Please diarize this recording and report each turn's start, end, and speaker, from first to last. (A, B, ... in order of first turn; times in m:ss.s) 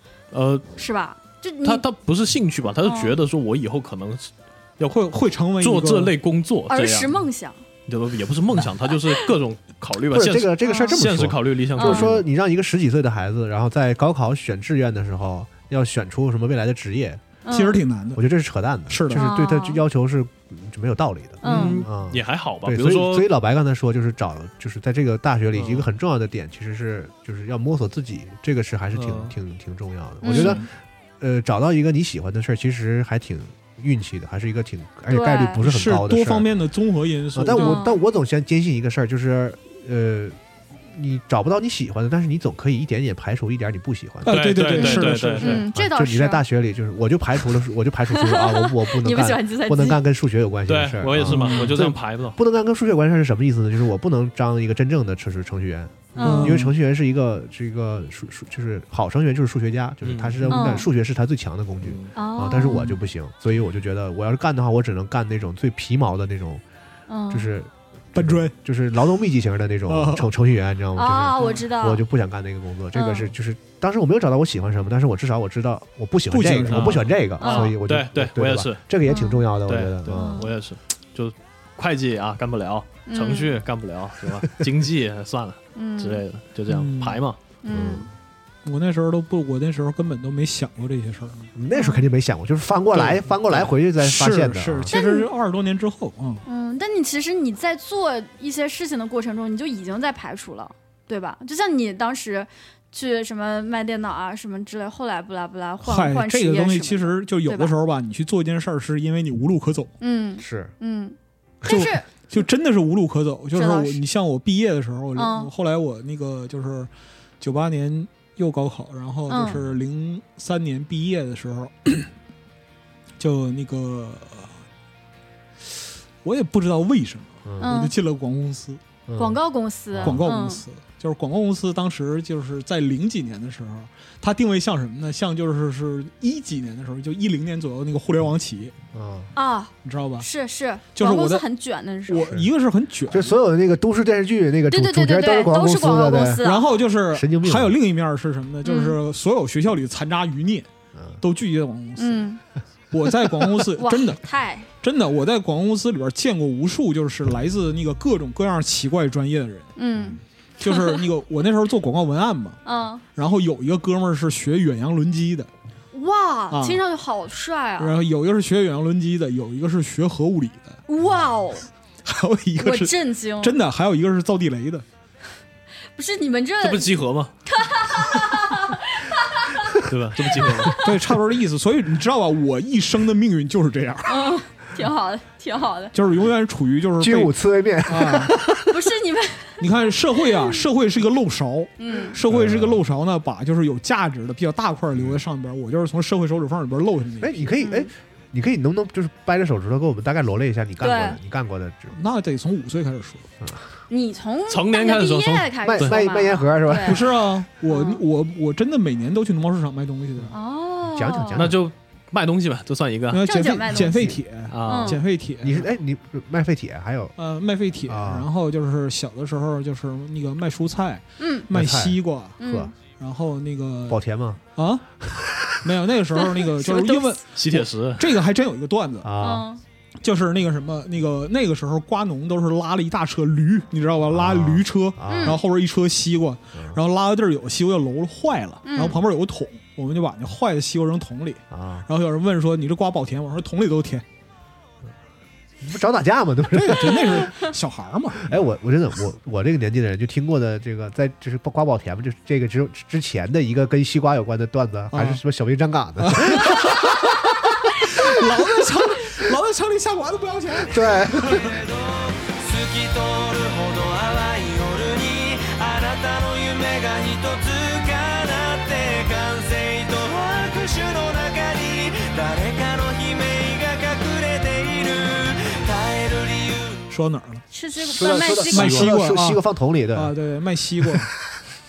0:00.3-0:00.7 A
0:00.8-0:01.8 B
0:01.6-0:05.0 A
0:02.8-0:03.1 B
0:04.9-0:06.1 C
0:05.6-0:07.2 A
0:06.7-0:07.6 B
0:07.9-0:12.2 A
0:10.1-0:17.2 D
0:10.6-0:11.0 B
0:11.8-0:12.1 B
0:17.4-0:17.8 B
0:17.5-0:18.2 C
0:18.1-0:36.5 D
0:18.9-0:19.2 C
0:19.1-0:19.8 B
0:21.4-0:21.8 B
0:21.4-0:21.8 C
0:21.5-0:23.3 A
0:25.5-0:25.8 A
0:28.9-0:29.3 A
0:30.2-0:30.6 B
0:35.1-0:35.6 B
0:35.6-0:37.8 C
0:37.3-0:44.6 D
0:37.5-0:38.0 B
0:44.2-0:45.6 C
0:44.3-0:45.6 A
0:44.7-0:46.4 B
0:45.7-1:06.6 D
0:48.1-0:50.0 B
0:50.7-0:52.4 A
0:51.2-0:51.7 C
0:56.2-0:56.4 A
0:56.2-0:56.6 B
0:56.2-0:56.7 C
1:00.0-1:00.4 A
1:00.5-1:00.8 C
1:00.5-1:00.9 B
1:01.8-1:02.1 A
1:02.1-1:03.0 B
1:07.1-1:07.5 B
1:07.3-1:20.5 D
1:08.1-1:08.5 C
1:09.9-1:10.3 C
1:11.0-1:12.0 B
1:12.9-1:13.3 B
1:16.3-1:17.1 C
1:16.7-1:18.8 A
1:17.4-1:17.7 B
1:19.0-1:19.4 B
1:19.7-1:27.4 A
1:20.1-1:20.5 B
1:23.1-1:23.6 B
1:25.8-1:26.2 B
1:26.7-1:27.2 C
1:27.6-1:28.1 B
1:27.7-1:28.1 D
1:28.6-1:31.5 C
1:31.5-1:34.9 D
1:31.7-1:32.0 B
1:32.9-1:36.4 C
1:34.9-1:35.3 B
1:36.4-1:47.7 B
1:45.8-1:49.9 C
1:50.0-1:52.1 B
1:50.4-1:50.7 D
1:51.6-2:02.1 C
1:53.5-1:54.0 B
1:55.2-1:55.5 B
1:59.3-1:59.6 B
2:03.2-2:04.5 C
2:06.2-2:08.8 C
2:07.4-2:07.7 D
2:07.6-2:07.9 B
2:09.1-2:09.4 D
2:09.2-2:10.6 B
2:09.9-2:10.2 D
2:10.0-2:18.7 C
2:18.9-2:19.3 D
2:19.3-2:22.3 B
2:19.8-2:20.3 C
2:20.9-2:21.4 C
2:22.1-2:23.4 C
2:23.1-2:26.4 D
2:24.7-2:26.7 B
2:26.4-2:30.7 C
2:27.1-2:27.8 D
2:28.6-2:29.0 B
2:30.9-2:31.2 D
2:31.2-2:32.3 C
2:32.0-2:32.4 B
2:32.9-2:34.2 C
2:33.8-2:34.7 B
2:34.8-2:39.7 C
2:39.8-2:41.0 B
2:40.6-2:42.6 C
2:42.6-2:43.0 B
2:43.1-2:45.5 C
2:45.9-2:48.0 B
2:46.5-2:46.8 C
2:47.8-2:50.8 C
2:50.9-2:51.7 B
2:52.0-2:54.8 C
2:52.6-2:53.6 B
2:56.0-2:56.9 B
2:56.6-2:57.3 A
2:57.5-2:59.7 B
2:59.8-3:00.8 A
3:00.8-3:04.3 C
3:04.0-3:05.9 B
3:05.9-3:07.3 C
3:07.0-3:08.7 D
3:07.8-3:08.4 C
3:08.7-3:09.6 B
3:09.6-3:17.6 C
3:11.8-3:12.2 B
3:12.2-3:12.8 D
3:14.9-3:15.2 D
3:17.2-3:22.0 D
3:17.6-3:17.9 B
3:20.8-3:21.2 B
3:21.9-3:23.3 C
3:23.9-3:27.0 B
3:24.5-3:26.0 A
3:25.6-3:27.2 D
3:26.8-3:30.3 C
3:27.7-3:28.0 B
3:30.3-3:31.4 B
3:30.8-3:31.6 D
3:31.4-3:33.3 A
3:33.1-3:35.7 C
3:33.2-3:35.0 B
3:33.9-3:34.2 D
3:34.5-3:35.0 A
3:35.4-3:37.2 D
3:37.2-3:44.0 C
3:37.8-3:38.3 D
3:41.2-3:41.5 B
3:41.5-3:42.7 D
3:42.4-3:42.7 B
3:43.9-3:44.4 D
3:44.6-3:44.8 C
3:45.0-3:45.6 D
3:45.6-3:49.2 C
3:46.5-3:47.2 B
3:47.3-3:48.2 A
3:49.0-3:49.5 D
3:49.2-3:49.6 B
3:50.0-4:04.0 C
3:54.1-3:55.4 D
3:55.1-3:55.4 B
3:58.6-3:59.0 B
4:01.5-4:01.9 D
4:05.6-4:07.3 D
4:06.5-4:08.3 C
4:08.2-4:17.1 D
4:14.9-4:15.2 C
4:16.0-4:21.3 C
4:20.7-4:21.5 D
4:21.3-4:36.8 E
4:36.9-4:37.4 C
4:37.5-4:38.9 B
4:37.8-4:40.1 D
4:38.5-4:39.4 C
4:38.6-4:38.9 A
4:39.9-4:41.1 C